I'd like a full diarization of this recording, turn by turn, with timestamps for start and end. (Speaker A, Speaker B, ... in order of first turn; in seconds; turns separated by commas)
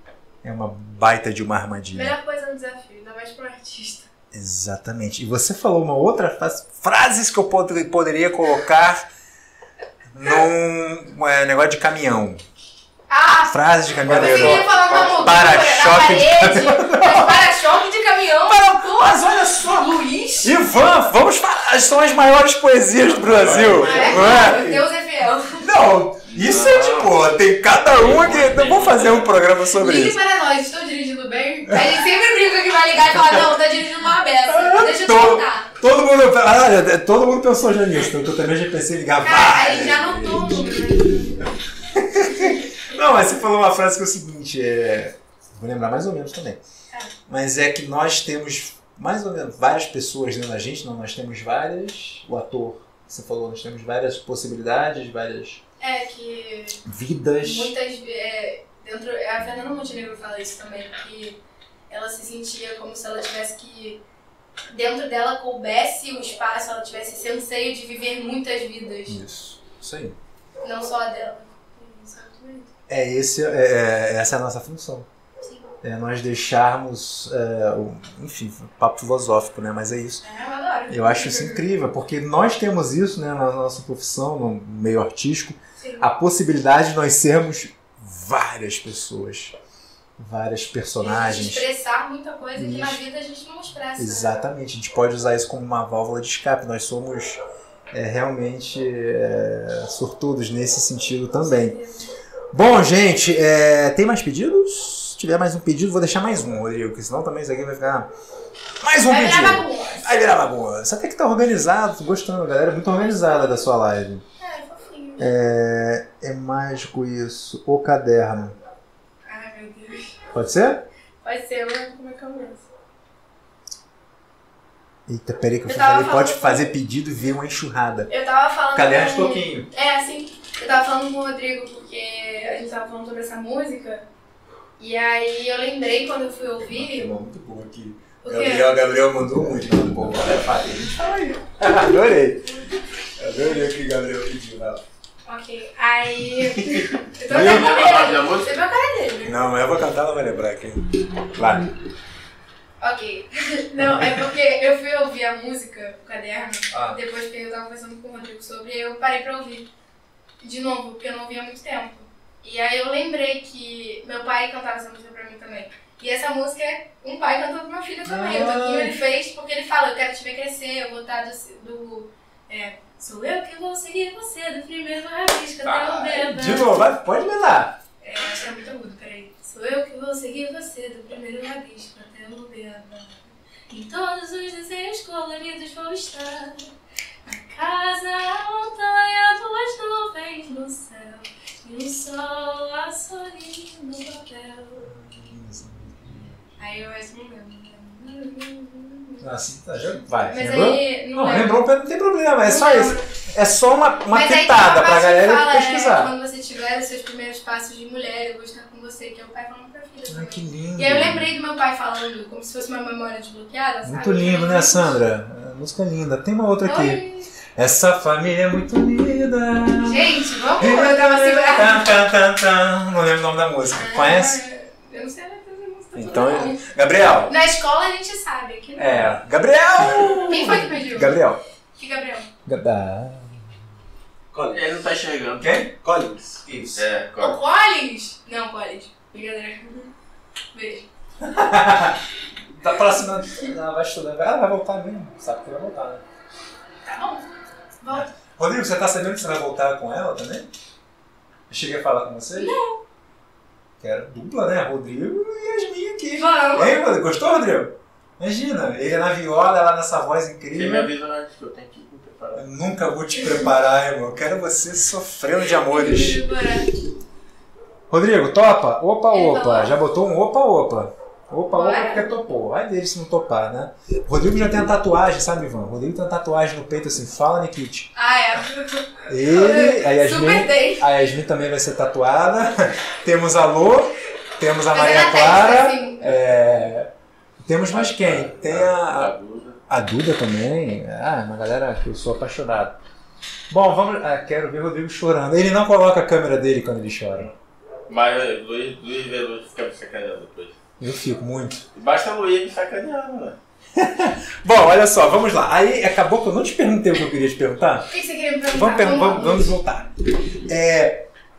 Speaker A: 0.4-2.1, Speaker B: 1.9-4.1, Speaker A: 4.3-9.1, Speaker A: 10.1-12.4, Speaker B: 13.1-20.5, Speaker A: 13.5-17.5, Speaker A: 18.5-24.9, Speaker C: 23.1-24.6, Speaker B: 23.8-25.7, Speaker A: 25.6-30.2, Speaker C: 26.3-27.2, Speaker C: 27.9-29.4, Speaker B: 29.8-35.7, Speaker A: 31.7-31.9, Speaker A: 34.5-40.9, Speaker B: 39.2-41.6, Speaker A: 41.9-46.6, Speaker A: 47.3-55.6, Speaker B: 55.8-56.8, Speaker A: 56.9-57.7, Speaker B: 57.4-61.4, Speaker B: 61.9-64.0, Speaker B: 64.7-69.2, Speaker A: 69.1-70.2, Speaker B: 70.6-72.7, Speaker A: 72.9-75.1, Speaker B: 75.4-75.7, Speaker A: 75.8-80.2, Speaker B: 80.2-81.6, Speaker A: 80.9-89.5, Speaker B: 85.8-86.1, Speaker A: 90.2-91.7, Speaker B: 91.0-94.3, Speaker A: 92.6-93.0, Speaker A: 94.0-97.4, Speaker A: 97.9-101.8, Speaker B: 101.4-102.1, Speaker A: 102.5-108.1, Speaker A: 108.8-114.2, Speaker B: 109.1-110.1, Speaker B: 114.4-115.3, Speaker A: 115.2-118.6, Speaker B: 119.3-120.2, Speaker A: 120.3-120.9, Speaker B: 121.2-122.7, Speaker A: 125.1-128.1, Speaker B: 125.7-126.7, Speaker B: 128.1-134.1, Speaker A: 128.7-129.7, Speaker B: 134.8-137.1, Speaker A: 136.6-142.5, Speaker B: 138.2-138.7, Speaker A: 143.2-144.8, Speaker B: 145.3-149.4, Speaker A: 146.3-147.8, Speaker C: 147.3-148.5, Speaker A: 149.2-151.7, Speaker B: 152.8-159.7, Speaker A: 153.8-154.3, Speaker A: 156.7-157.0, Speaker B: 160.4-176.8, Speaker A: 168.1-169.0, Speaker A: 175.8-177.8, Speaker B: 178.0-186.7, Speaker B: 187.3-194.9, Speaker A: 194.8-196.4, Speaker B: 196.6-199.2, Speaker A: 199.2-206.1, Speaker B: 200.3-201.6, Speaker B: 202.4-203.1, Speaker B: 204.1-215.0, Speaker A: 210.1-211.3, Speaker A: 213.8-217.0, Speaker B: 216.6-217.3, Speaker A: 217.6-220.1, Speaker B: 219.8-221.9, Speaker A: 220.6-224.4, Speaker B: 223.7-226.7, Speaker A: 225.9-227.3, Speaker B: 227.3-229.2, Speaker A: 228.8-231.4, Speaker B: 230.1-231.2, Speaker B: 231.8-232.3, Speaker A: 232.5-233.5, Speaker A: 234.3-234.6, Speaker C: 234.5-235.7, Speaker A: 235.4-236.9, Speaker C: 236.7-237.4, Speaker B: 237.2-239.9, Speaker B: 240.5-240.9, Speaker A: 241.2-246.0, Speaker B: 246.9-247.2, Speaker B: 247.8-248.1, Speaker A: 247.9-250.5, Speaker A: 251.5-252.6, Speaker B: 252.4-252.8, Speaker A: 253.8-260.9, Speaker B: 256.2-256.8, Speaker C: 260.5-262.5, Speaker A: 262.4-266.2, Speaker B: 265.7-266.7, Speaker A: 267.9-277.9, Speaker B: 269.1-269.8, Speaker B: 271.5-272.1, Speaker B: 277.9-280.9, Speaker A: 279.1-286.9, Speaker B: 284.7-286.1, Speaker A: 287.4-289.1, Speaker C: 287.8-289.6, Speaker A: 289.7-292.8, Speaker A: 293.5-297.3, Speaker C: 297.9-300.6, Speaker A: 300.8-301.7, Speaker C: 301.8-303.4, Speaker A: 303.8-307.9, Speaker B: 307.9-309.6, Speaker A: 308.5-309.9, Speaker A: 310.5-311.1